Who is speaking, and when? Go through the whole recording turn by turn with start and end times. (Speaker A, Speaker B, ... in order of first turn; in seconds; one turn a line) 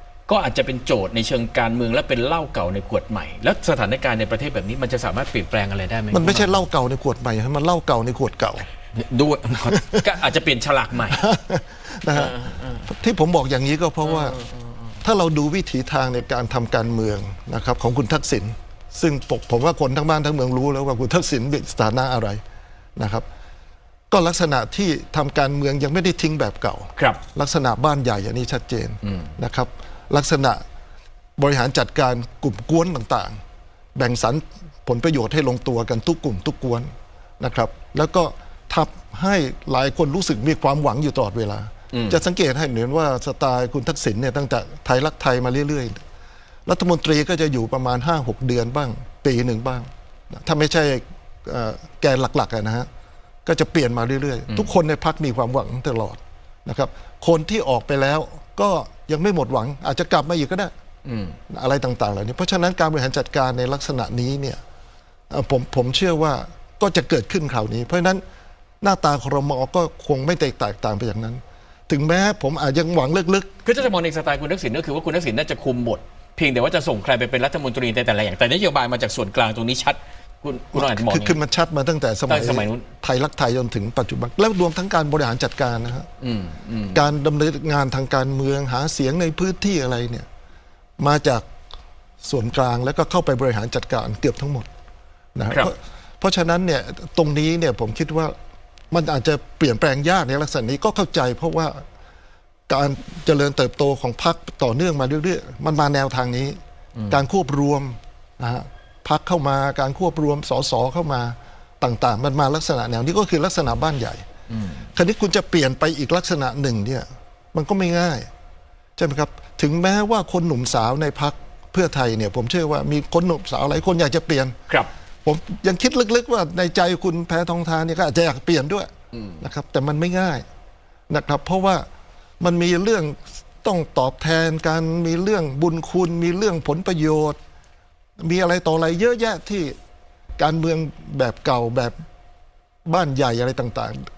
Speaker A: 0.3-6.7
Speaker B: 6.1-8.7
Speaker A: 8.9-11.2
Speaker B: 9.8-10.0
Speaker B: 11.1-14.4
Speaker A: 12.1-12.8
Speaker A: 14.0-14.8
Speaker B: 15.0-22.4
Speaker B: 23.0-23.2
Speaker B: 24.1-30.6
Speaker A: 26.9-27.2
Speaker B: 31.4-33.3
Speaker B: 34.0-36.9
Speaker B: 37.4-46.0
Speaker A: 41.9-42.2
Speaker B: 46.7-52.9
Speaker B: 53.5-60.7
Speaker A: 61.0-61.4
Speaker B: 61.5-64.6
Speaker B: 65.3-68.2
Speaker B: 68.8-73.5
Speaker A: 73.6-81.4
Speaker B: 80.7-86.1
Speaker A: 82.3-82.8
Speaker A: 86.2-87.0
Speaker B: 86.9-90.3
Speaker B: 91.0-91.4
Speaker B: 92.2-94.7
Speaker B: 95.3-98.3
Speaker B: 98.9-101.8
Speaker B: 102.7-106.6
Speaker B: 107.1-114.2
Speaker A: 114.5-114.8
Speaker B: 114.9-118.3
Speaker B: 119.0-124.5
Speaker B: 125.2-128.9
Speaker A: 129.1-129.4
Speaker B: 129.4-130.4
Speaker B: 131.1-131.8
Speaker B: 132.4-137.4
Speaker B: 138.2-139.7
Speaker B: 140.4-141.9
Speaker B: 142.8-144.0